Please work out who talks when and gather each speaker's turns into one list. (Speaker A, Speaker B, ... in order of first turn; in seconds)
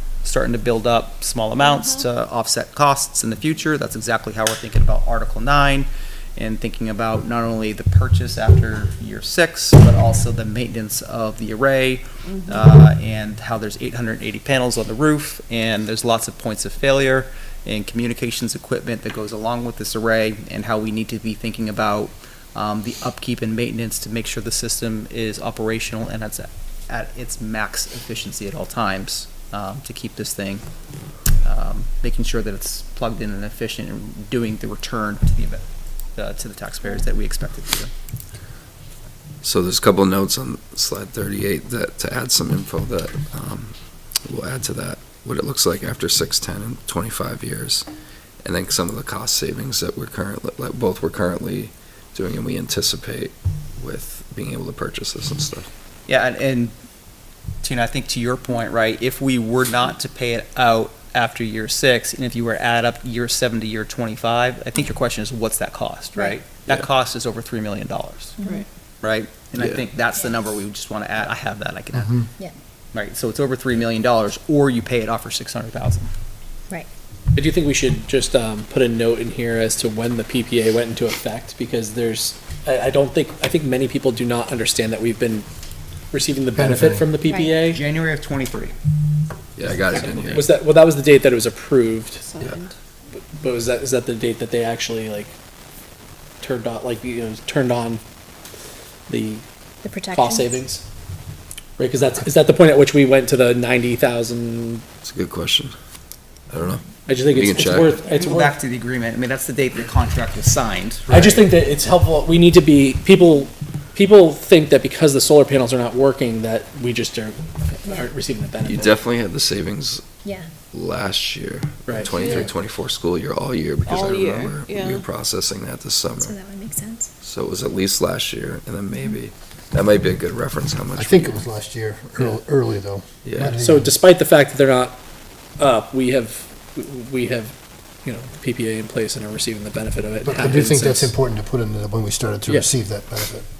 Speaker A: 0.2-30.6, 31.4-35.6, 36.1-37.9, 56.1-56.7, 57.6-68.4, 69.0-72.2, 72.9-76.1, 87.6-88.7, 107.9-111.4
Speaker B: 39.4-47.9, 48.4-55.7, 89.5-90.5, 105.0-105.7, 106.5-108.0, 118.6-120.0, 120.7-126.3, 127.2-131.4, 133.2-133.5
Speaker C: 68.4-68.7, 87.2-87.6, 99.8-100.6, 126.2-127.1
Speaker D: 77.3-85.5, 86.1-87.8, 90.0-92.2, 93.1-95.3, 96.4-98.0, 99.1-99.4, 100.1-100.8, 101.8-104.8, 107.1-108.5, 111.1-119.0, 121.8-122.1, 133.4-135.0, 135.6-141.1
Speaker E: 86.5-87.1, 130.9-133.9, 140.2-143.4
Speaker F: 92.2-92.7, 122.1-122.5, 123.9-125.0